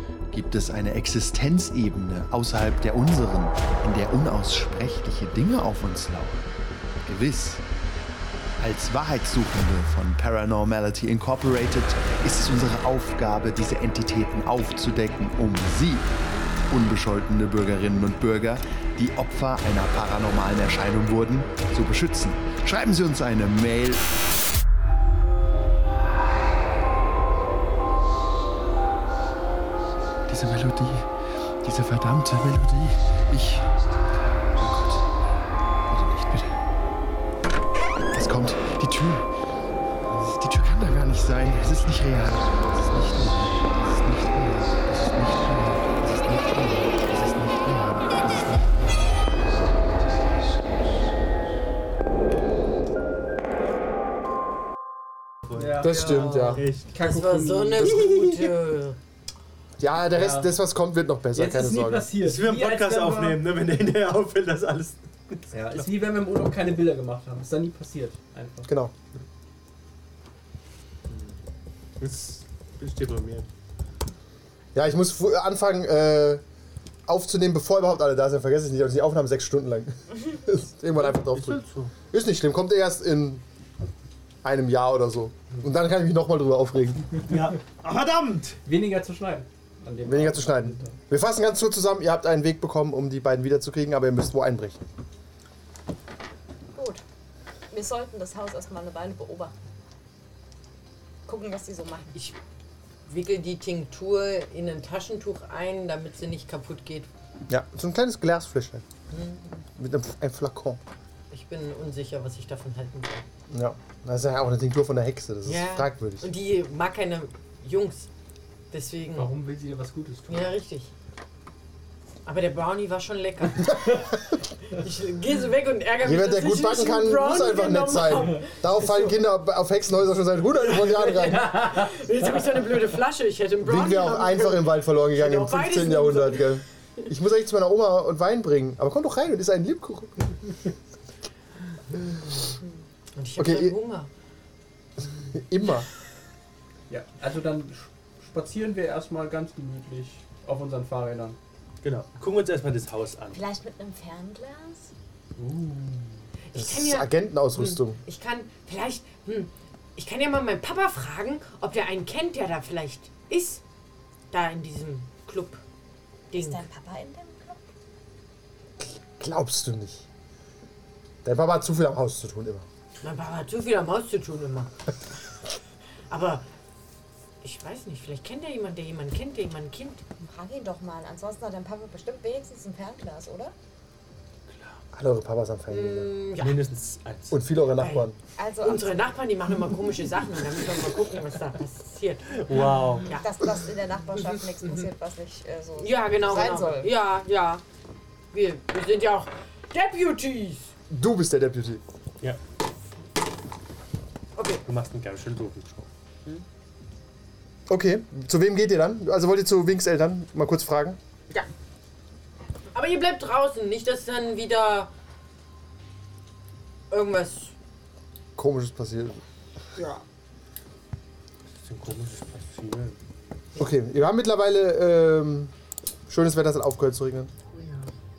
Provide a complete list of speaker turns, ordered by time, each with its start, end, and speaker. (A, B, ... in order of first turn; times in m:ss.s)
0:00.3-0:06.5 A
0:07.0-0:07.6 A
0:08.6-0:16.1 A
0:16.7-0:24.0 A
0:30.3-0:31.1 A
0:31.6-0:33.7 A
0:34.6-0:35.0 A
0:35.9-0:36.5 A
0:38.1-0:39.3 A
0:40.1-0:49.2 A
0:50.1-0:50.7 A
0:55.5-0:56.9 B
0:55.6-0:56.3 C
0:55.8-0:56.6 D
0:55.9-0:59.0 E
0:56.9-0:58.1 C
0:59.8-1:02.1 D
1:00.1-1:00.6 C
1:01.3-1:03.4 C
1:02.2-1:05.8 B
1:05.5-1:08.7 C
1:08.6-1:08.9 D
1:11.1-1:11.4 B
1:12.0-1:13.5 B
1:14.7-1:16.4 D
1:17.1-1:23.4 D
1:21.1-1:21.9 B
1:24.4-1:27.1 D
1:27.3-1:28.6 B
1:28.6-1:31.0 C
1:30.0-1:34.8 D
1:36.7-1:37.0 F
1:37.7-1:39.5 F
1:41.2-1:42.1 F
1:43.1-1:47.1 E
1:47.5-1:48.8 D
1:49.1-1:49.6 E
1:49.8-1:50.8 D
1:51.3-1:53.2 E
1:53.5-1:56.3 D
1:55.4-1:58.1 E
1:58.7-1:59.3 E
1:59.1-2:00.6 C
2:00.3-2:00.9 E
2:02.2-2:04.0 E
2:04.7-2:09.2 E
2:06.0-2:11.5 D
2:10.6-2:16.6 E
2:11.4-2:11.9 C
2:13.6-2:20.3 D
2:23.1-2:24.1 E
2:23.4-2:23.8 D
2:25.3-2:25.9 D
2:26.9-2:31.4 C
2:31.8-2:33.4 B
2:33.3-2:34.9 F
2:35.4-2:36.2 C
2:36.5-2:43.6 E
2:36.5-2:38.0 D
2:44.3-2:45.6 E
2:46.3-2:46.6 E
2:46.3-2:47.6 F
2:48.8-2:50.0 D
2:51.2-2:52.6 D
2:53.0-2:54.7 E
2:56.1-2:56.4 E
2:57.4-3:00.0 E
3:00.2-3:03.5 F
3:04.5-3:04.8 B
3:04.9-3:06.2 D
3:05.7-3:06.6 E
3:06.4-3:07.4 B
3:07.3-3:08.2 D
3:07.8-3:08.1 E
3:08.4-3:09.0 F
3:08.6-3:13.2 E
3:12.4-3:13.1 B
3:13.1-3:16.9 F
3:14.6-3:14.9 E
3:15.8-3:17.6 E
3:18.3-3:20.7 E
3:20.9-3:21.8 D
3:24.4-3:24.6 E
3:24.6-3:25.9 B
3:27.7-3:31.0 D
3:32.7-3:34.9 E
3:36.9-3:37.5 E
3:38.4-3:39.2 D
3:39.8-3:40.0 E
3:41.6-3:43.0 B
3:43.6-3:45.5 D
3:46.1-3:47.3 D
3:47.5-3:47.9 B